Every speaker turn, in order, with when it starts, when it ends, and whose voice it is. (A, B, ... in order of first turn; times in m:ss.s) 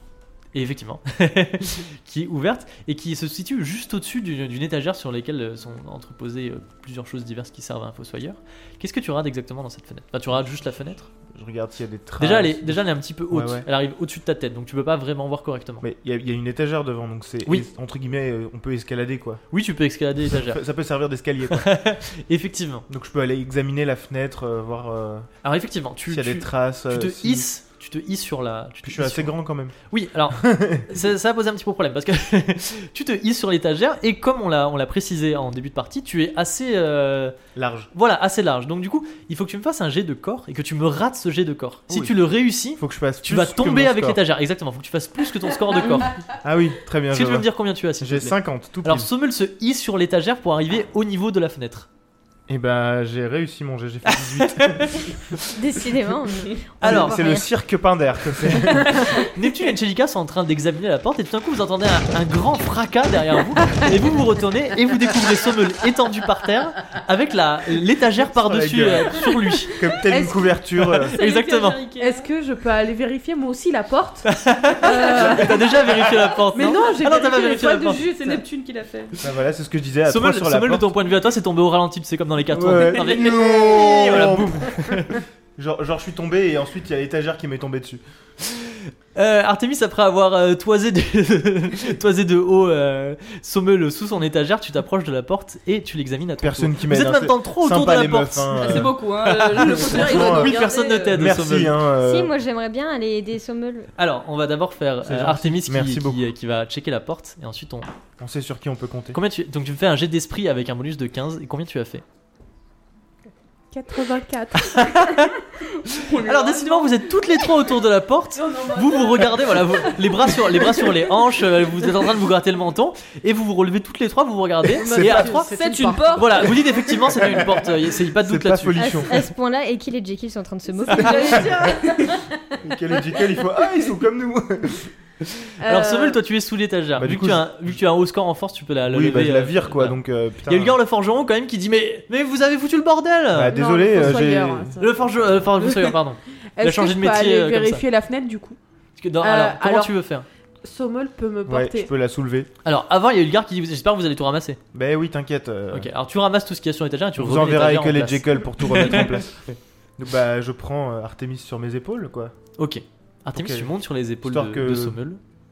0:00.5-0:11.1 A
0:11.3-0:13.7 B
0:12.2-0:15.8 A
0:15.8-0:19.4 B
0:19.5-0:20.6 A
0:20.3-0:21.7 B
0:21.5-0:22.8 A
0:22.9-0:25.3 B
0:25.4-0:37.4 A
0:26.1-0:27.5 B
0:28.8-0:29.7 B
0:30.3-0:30.9 B
0:37.5-0:37.9 B
0:37.9-0:46.2 A
0:41.9-0:44.2 B
0:46.3-0:49.1 B
0:47.1-0:51.9 A
0:52.5-0:55.1 B
0:54.1-0:55.1 A
0:55.5-0:57.5 C
0:56.8-0:57.2 A
0:56.8-0:59.2 B
0:58.9-1:09.9 A
1:08.2-1:11.1 B
1:10.0-1:10.6 D
1:11.0-1:12.3 E
1:11.1-1:11.8 A
1:12.0-1:18.4 D
1:14.3-1:18.0 A
1:14.8-1:15.4 E
1:17.9-1:19.2 E
1:19.2-1:20.9 B
1:20.0-1:25.2 A
1:22.5-1:28.0 B
1:28.5-1:41.8 A
1:36.4-1:39.0 B
1:38.5-1:41.1 E
1:39.6-1:40.6 B
1:40.0-1:40.7 D
1:41.1-1:42.3 B
1:42.0-1:43.9 C
1:44.0-1:47.9 A
1:45.0-1:46.2 B
1:48.2-1:49.2 B
1:49.1-1:52.0 A
1:53.7-1:55.3 D
1:54.6-1:55.4 A
1:55.8-1:57.6 E
1:56.0-2:05.5 A
1:58.4-1:59.5 D
2:00.4-2:00.8 E
2:04.7-2:07.4 D
2:04.8-2:05.4 B
2:05.5-2:06.6 E
2:06.1-2:09.0 A
2:08.0-2:09.2 B
2:08.8-2:11.7 C
2:10.8-2:12.2 E
2:10.9-2:12.6 D
2:11.2-2:11.8 B
2:12.6-2:14.9 B
2:15.6-2:24.2 A
2:15.6-2:16.2 D
2:17.0-2:17.5 B
2:18.9-2:20.8 B
2:23.3-2:24.8 B
2:23.5-2:26.0 D
2:24.8-2:27.8 A
2:26.6-2:28.6 D
2:29.0-2:30.2 A
2:29.2-2:30.0 D
2:30.6-2:31.9 D
2:31.4-2:32.5 B
2:32.6-2:34.6 A
2:34.7-2:35.9 B
2:35.7-2:39.2 A
2:37.2-2:42.3 B
2:42.6-2:45.2 A
2:43.3-2:45.0 B